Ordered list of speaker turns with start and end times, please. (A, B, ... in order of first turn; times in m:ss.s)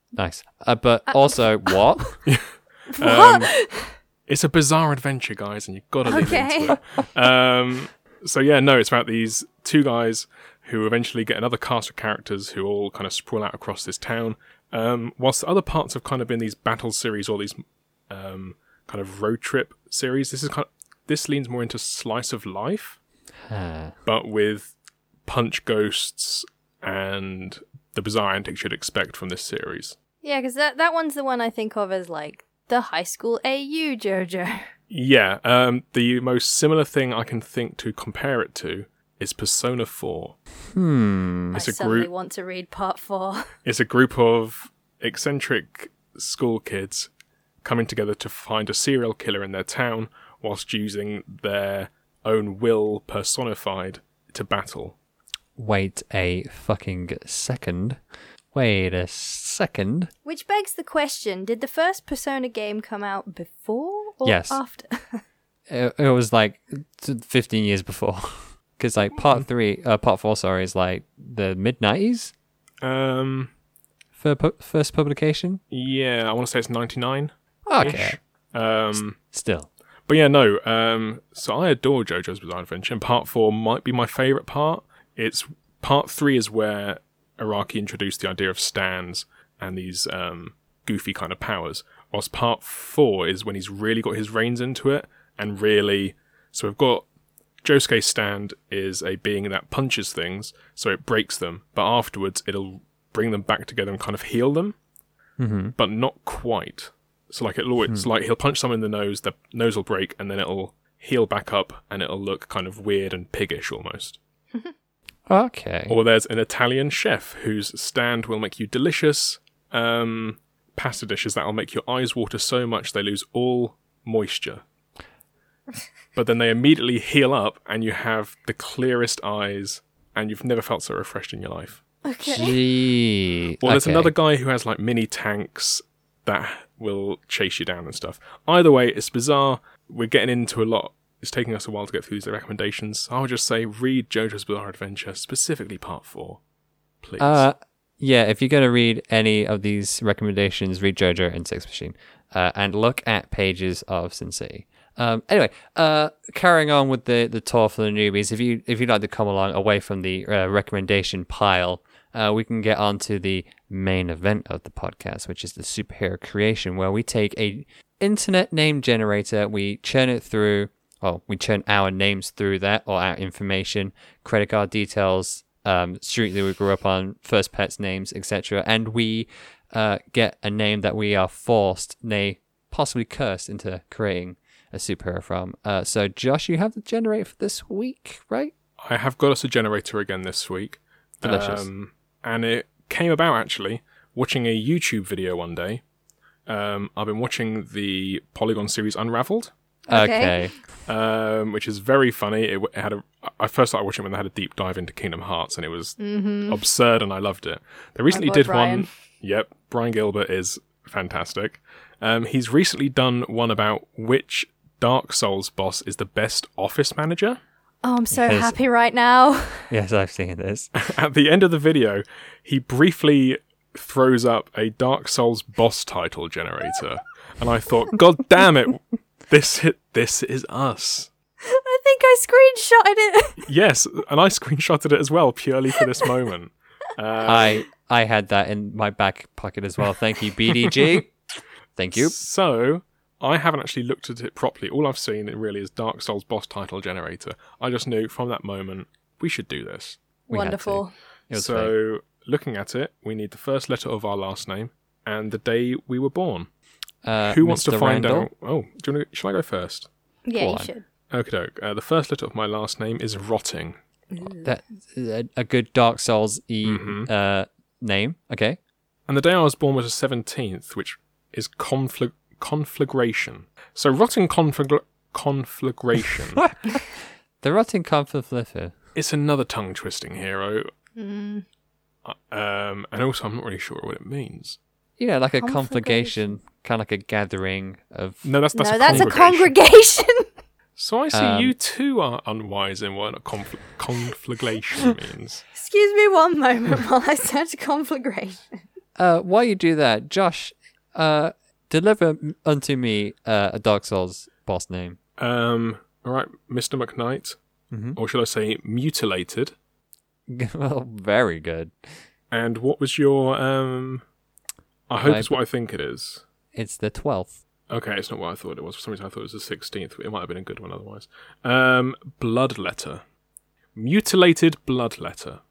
0:00.2-0:02.2 A
0:01.1-0:02.2 B
0:02.2-0:03.6 C
0:02.9-0:04.0 B
0:04.3-0:23.0 C
0:06.0-0:06.8 B
0:23.5-0:24.0 A
0:24.0-0:30.0 C
0:30.2-0:34.7 B
0:34.9-0:40.4 C
0:40.7-0:41.5 A
0:41.5-0:43.5 B
0:41.5-0:42.1 C
0:43.6-0:47.1 C
0:47.6-0:55.0 C
0:55.6-0:58.0 A
0:58.5-1:00.1 A
1:00.2-1:05.2 B
1:04.2-1:04.6 A
1:05.7-1:12.3 A
1:12.8-1:13.5 C
1:14.2-1:15.6 A
1:15.7-1:19.2 C
1:17.7-1:18.2 A
1:19.2-1:19.7 A
1:20.1-1:37.0 C
1:37.6-1:44.7 C
1:45.4-1:45.7 A
1:45.8-1:54.2 C
1:55.3-1:56.0 A
1:55.9-2:04.6 C
2:06.1-2:11.8 C
2:12.0-2:12.6 B
2:12.2-2:14.1 A
2:13.6-2:26.4 C
2:27.0-2:27.4 C
2:27.2-3:08.5 A
3:08.8-3:15.8 C
3:11.2-3:11.7 A
3:16.5-3:19.5 C
3:19.9-3:20.5 B
3:19.9-3:20.6 A
3:20.8-3:37.4 C
3:26.0-3:26.6 B
3:28.1-3:28.9 B
3:37.8-3:39.7 B
3:38.1-3:38.6 A
3:39.7-3:40.7 A
3:40.8-3:51.1 C
3:51.4-3:53.4 B
3:53.4-3:57.6 C
3:57.2-4:01.1 A
4:01.8-4:02.2 A
4:01.9-4:10.0 C
4:10.3-4:10.9 B
4:10.3-4:11.7 A
4:11.3-4:16.5 C
4:17.0-4:18.3 A
4:17.2-4:19.9 C
4:20.2-4:20.8 B
4:20.3-4:20.7 A
4:21.1-4:23.8 C
4:24.1-4:24.5 B
4:24.4-4:28.6 A
4:26.6-4:27.1 C
4:29.1-4:36.5 C
4:36.4-4:38.7 A
4:38.9-4:40.7 C
4:41.0-4:41.4 B
4:42.0-4:44.6 C
4:45.0-4:49.1 A
4:45.4-4:46.3 B
4:48.2-4:49.5 C
4:48.5-4:50.3 B
4:50.8-4:55.4 C
4:51.1-4:51.5 A
4:55.5-4:58.6 B
4:59.0-5:05.0 A
5:05.2-5:07.4 C
5:07.7-5:08.0 A
5:08.0-5:09.5 C
5:10.3-5:12.0 A
5:12.3-5:14.0 C
5:14.9-5:16.2 C
5:15.0-5:15.3 A
5:16.5-5:17.4 A
5:17.7-5:23.0 C
5:23.7-5:25.4 C